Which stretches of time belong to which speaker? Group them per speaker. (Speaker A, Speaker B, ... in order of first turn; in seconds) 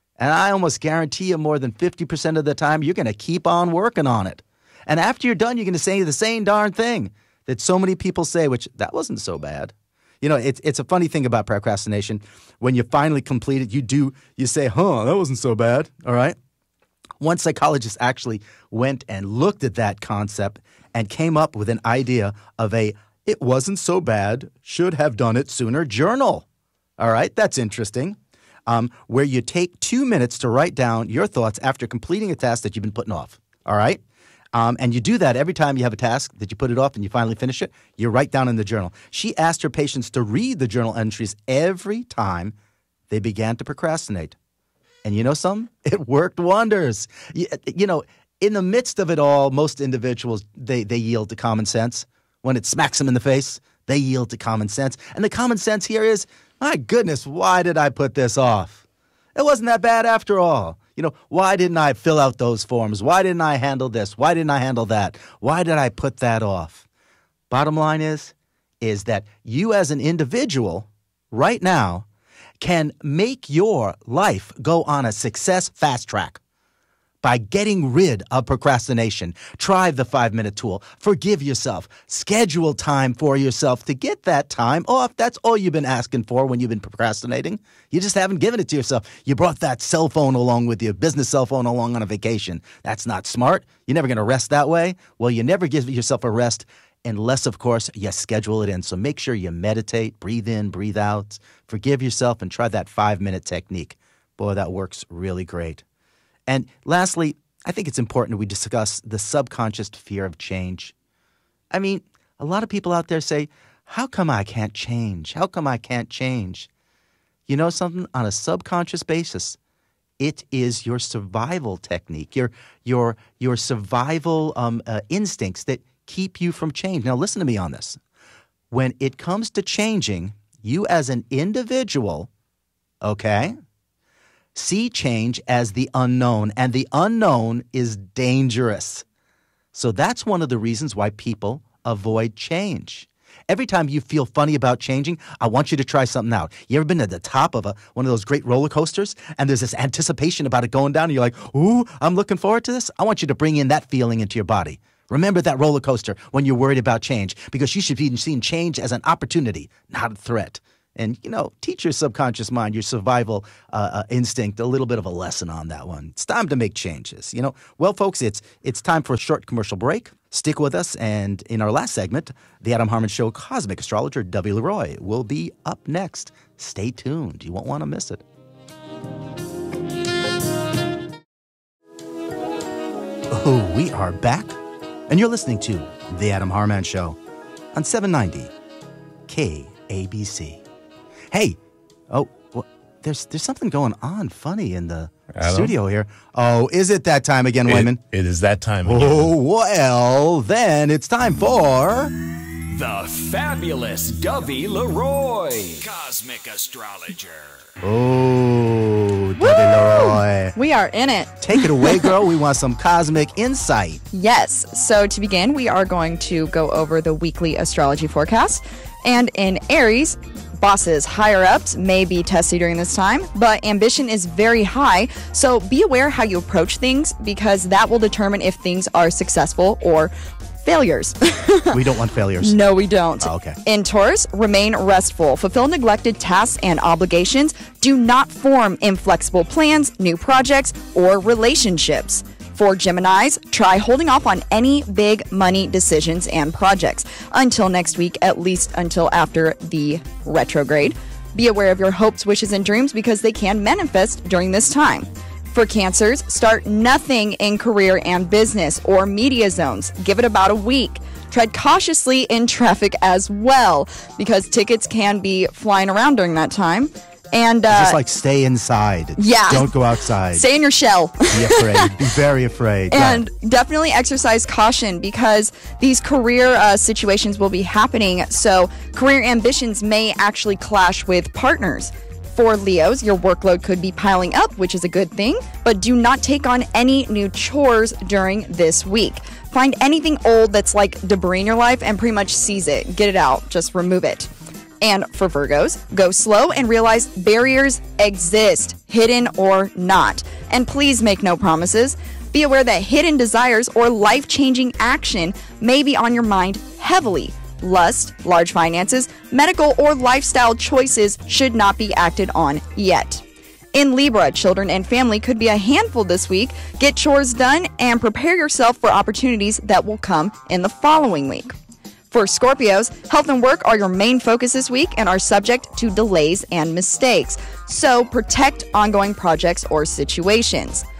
Speaker A: 0.2-16.4, 17.2-26.4, 27.0-34.0, 34.5-42.5, 43.1-44.4, 45.0-58.8, 59.4-66.8, 67.5-72.0, 72.6-76.4, 77.2-105.8, 106.5-110.9, 111.7-116.7, 117.5-119.6, 120.2-128.0, 128.7-132.3, 133.0-133.6, 134.5-139.0, 139.7-178.2, 183.3-187.2, 187.7-188.5, 189.3-190.6, 191.3-191.6, 192.1-198.0, 198.8-202.1, 207.8-210.5, 211.4-214.0, 231.7-232.6, 233.2-233.6, 267.7-270.4, 271.3-273.2
Speaker B: 195.4-195.7, 197.7-199.3
Speaker C: 202.7-207.7
Speaker D: 209.4-212.1, 214.1-230.1, 230.6-231.8, 232.4-268.0, 269.2-269.7, 270.3-271.6, 272.9-294.3, 294.8-321.5, 322.1-330.8